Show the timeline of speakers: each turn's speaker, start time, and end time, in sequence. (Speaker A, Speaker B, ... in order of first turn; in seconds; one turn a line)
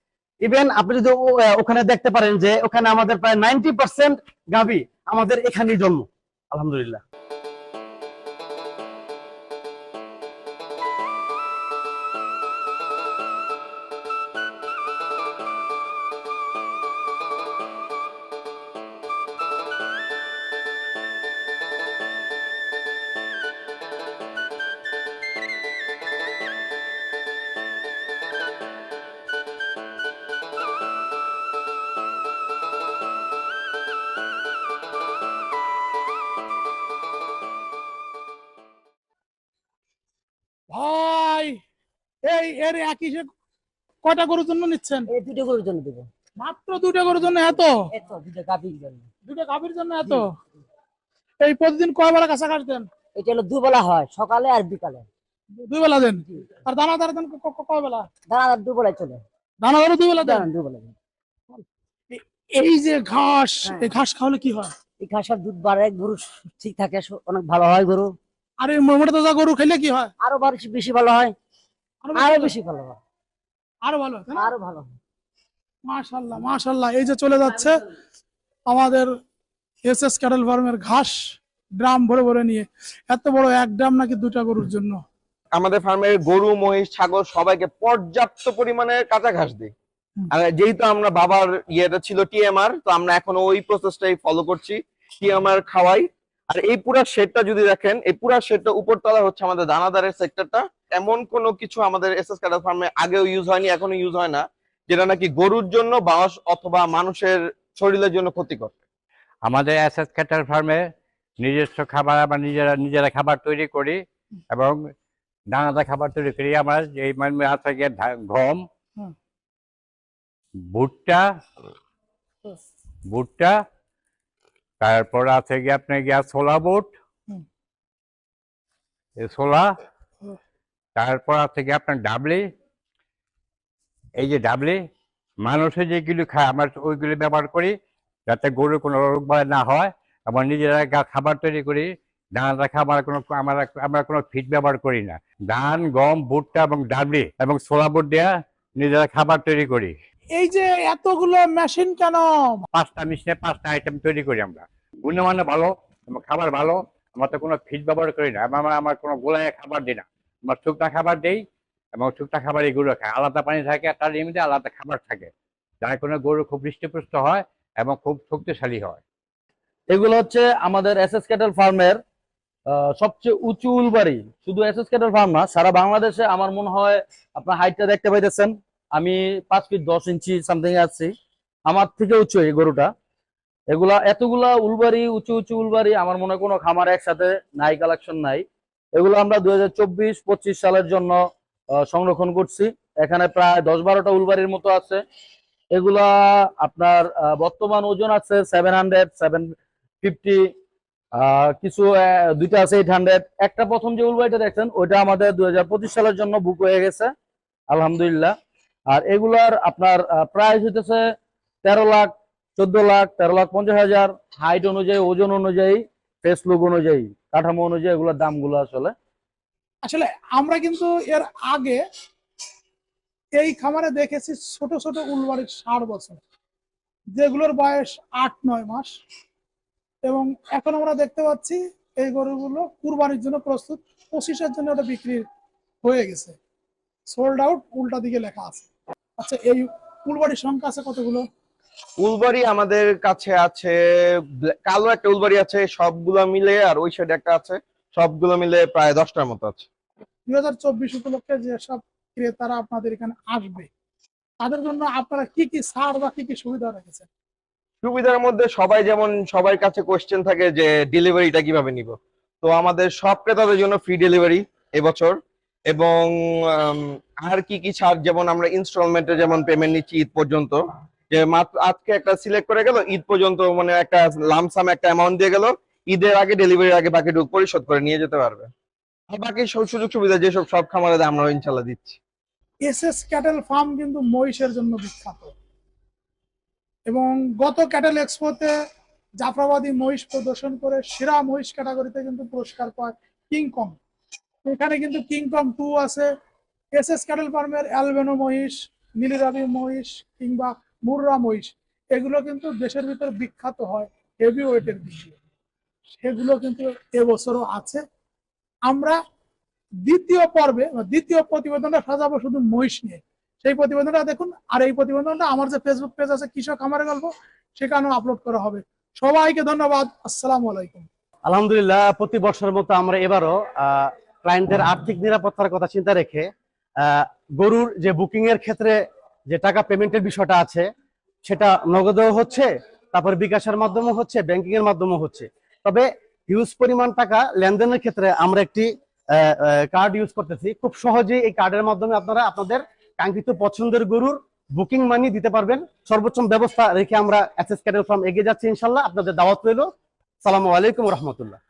Speaker A: 0.4-7.0
Speaker B: 40.7-41.6
Speaker B: 42.2-43.3
Speaker B: 44.0-45.1
Speaker C: 45.1-46.1
Speaker B: 46.4-47.9
Speaker C: 47.4-49.1
Speaker B: 49.3-50.3
Speaker B: 51.4-52.9
Speaker C: 53.2-55.1
Speaker B: 55.6-58.1
Speaker C: 58.3-59.2
Speaker B: 59.6-60.5
Speaker C: 60.2-61.0
Speaker B: 62.1-64.8
Speaker C: 63.6-63.9
Speaker C: 65.0-68.2
Speaker B: 68.6-70.1
Speaker C: 70.2-71.3
Speaker B: 72.0-72.5
Speaker C: 72.2-73.0
Speaker B: 73.8-74.5
Speaker C: 74.3-75.0
Speaker B: 75.9-77.8
Speaker B: 78.7-79.1
Speaker B: 79.9-81.2
Speaker B: 81.8-85.0
Speaker D: 85.5-89.7
Speaker D: 90.3-108.8
Speaker E: 109.5-110.8
Speaker E: 111.4-114.0
Speaker E: 114.5-114.8
Speaker E: 115.5-118.7
Speaker E: 120.7-121.3
Speaker E: 123.1-123.6
Speaker E: 124.8-126.9
Speaker E: 129.2-129.8
Speaker E: 131.0-132.5
Speaker E: 134.2-134.8
Speaker E: 135.4-137.7
Speaker E: 138.3-149.9
Speaker B: 150.4-152.7
Speaker E: 152.8-161.4
Speaker E: 162.0-165.3
Speaker E: 165.8-169.0
Speaker F: 169.9-172.0
Speaker F: 172.7-181.1
Speaker F: 181.7-182.9
Speaker F: 183.7-188.4
Speaker F: 189.0-191.2
Speaker F: 191.8-195.0
Speaker F: 195.7-200.5
Speaker F: 201.2-207.1
Speaker F: 207.7-208.4
Speaker F: 208.9-211.0
Speaker F: 211.6-218.9
Speaker B: 219.8-221.8
Speaker B: 223.4-226.2
Speaker B: 227.2-229.0
Speaker B: 230.1-235.2
Speaker B: 235.8-236.4
Speaker B: 237.1-238.7
Speaker B: 239.2-241.2
Speaker D: 242.0-243.8
Speaker D: 244.4-249.7
Speaker B: 250.3-253.7
Speaker B: 254.4-257.1
Speaker D: 257.8-265.2
Speaker D: 265.7-278.5
Speaker D: 279.1-282.0
Speaker B: 282.7-285.3
Speaker B: 286.9-288.5
Speaker B: 289.2-293.8
Speaker B: 294.4-296.1
Speaker B: 296.8-305.1
Speaker B: 306.0-307.8
Speaker B: 308.7-309.0
Speaker B: 309.9-320.9
Speaker A: 321.3-326.3
Speaker A: 326.8-328.8
Speaker A: 329.3-330.7
Speaker A: 331.3-349.7
Speaker A: 350.2-351.4